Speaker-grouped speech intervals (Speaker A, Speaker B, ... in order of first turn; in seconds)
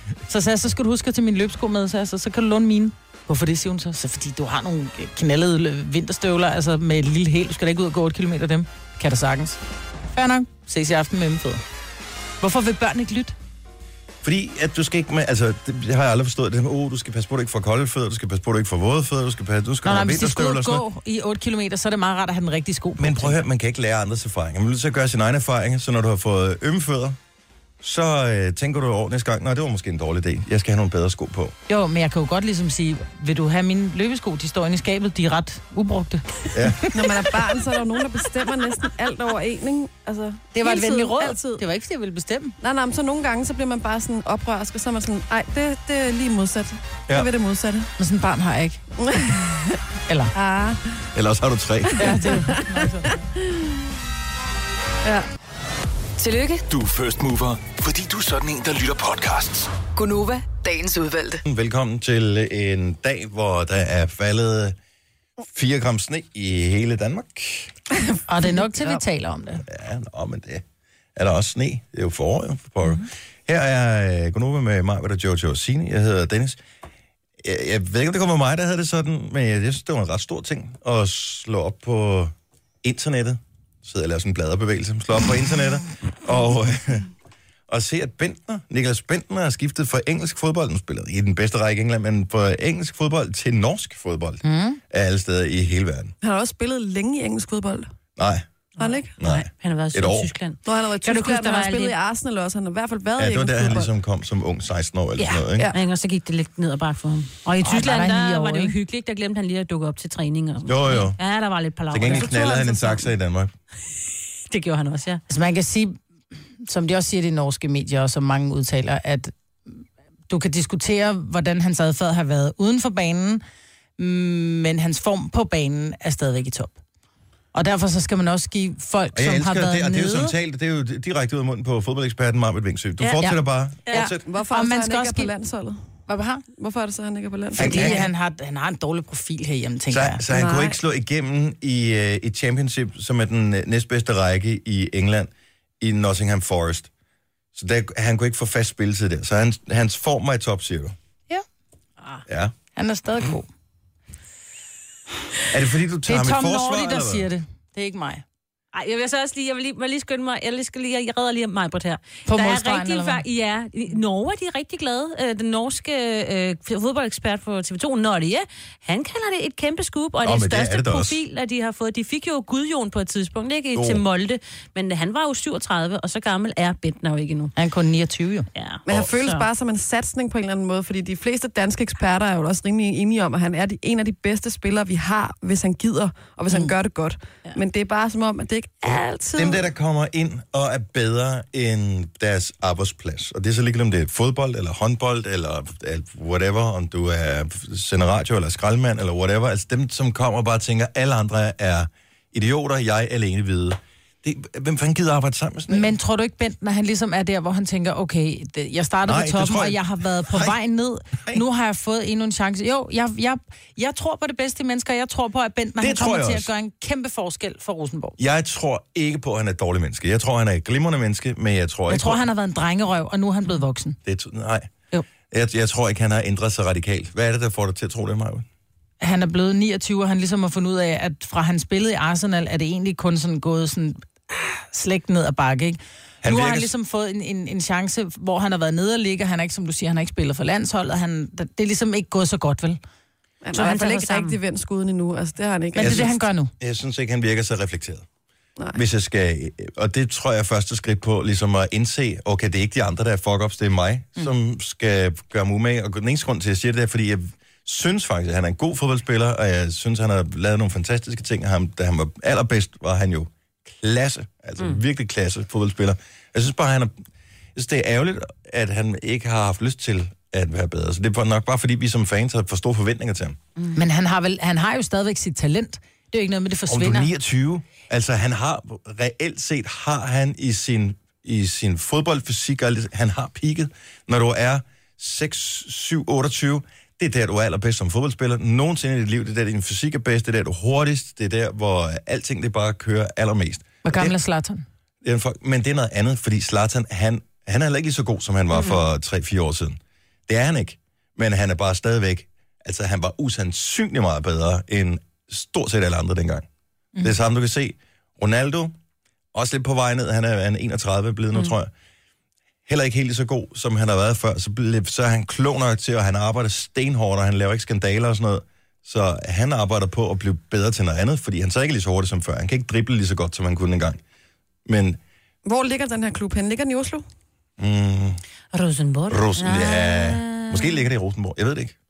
Speaker A: 0.3-9.6, 10.1-11.6, 12.4-13.3, 19.8-23.4, 31.7-36.9, 40.5-42.5, 48.0-48.8, 50.1-50.3, 52.0-53.2, 68.3-69.6, 94.4-94.8, 107.6-108.7, 115.3-116.0, 116.6-123.4, 124.0-126.8, 127.5-130.3, 133.2-135.3, 136.1-136.4, 137.6-140.2, 152.8-153.5, 156.1-158.2, 162.3-163.2, 177.6-178.5, 205.7-218.2, 221.9-224.0, 229.0-242.8, 245.7-246.5, 273.7-277.1, 293.8-294.6
Speaker B: 14.2-20.8, 23.0-27.2, 27.8-31.5, 36.5-36.9, 51.1-52.2, 61.5-64.8, 65.4-67.7, 69.6-70.6, 71.2-76.6, 77.4-87.1, 87.7-96.1, 98.2-98.5, 99.2-100.3, 103.2-105.7, 110.6-111.2, 111.9-113.5, 129.1-134.2, 137.6-138.0, 139.9-146.9, 147.5-150.9, 152.3-152.5, 155.5-157.3, 170.2-171.2, 173.7-174.0, 189.3-205.9, 209.1-210.6, 215.8-216.5, 218.2-222.3, 224.0-224.7, 225.3-228.4, 236.2-236.7, 245.8-248.0, 248.7-266.9, 267.5-273.4, 276.7-294.1, 295.0-306.5, 307.0-308.7, 309.3-311.7, 312.7-324.0, 324.7-325.0, 327.6-328.2, 329.1-331.7
Speaker C: 36.9-41.6, 42.6-47.9, 49.0-49.8, 50.3-50.8, 52.0-53.6, 68.5-69.0, 96.2-97.9, 98.8-99.1, 100.7-103.9, 134.2-135.8, 136.6-138.0, 140.3-140.8, 178.8-189.6, 243.4-246.1, 325.4-327.0
Speaker D: 56.2-56.6, 59.9-61.4
Speaker E: 56.7-59.8
Speaker F: 98.8-102.0, 105.2-113.0, 114.5-115.2, 158.7-177.5, 178.5-179.5, 243.5-244.4, 328.5-330.9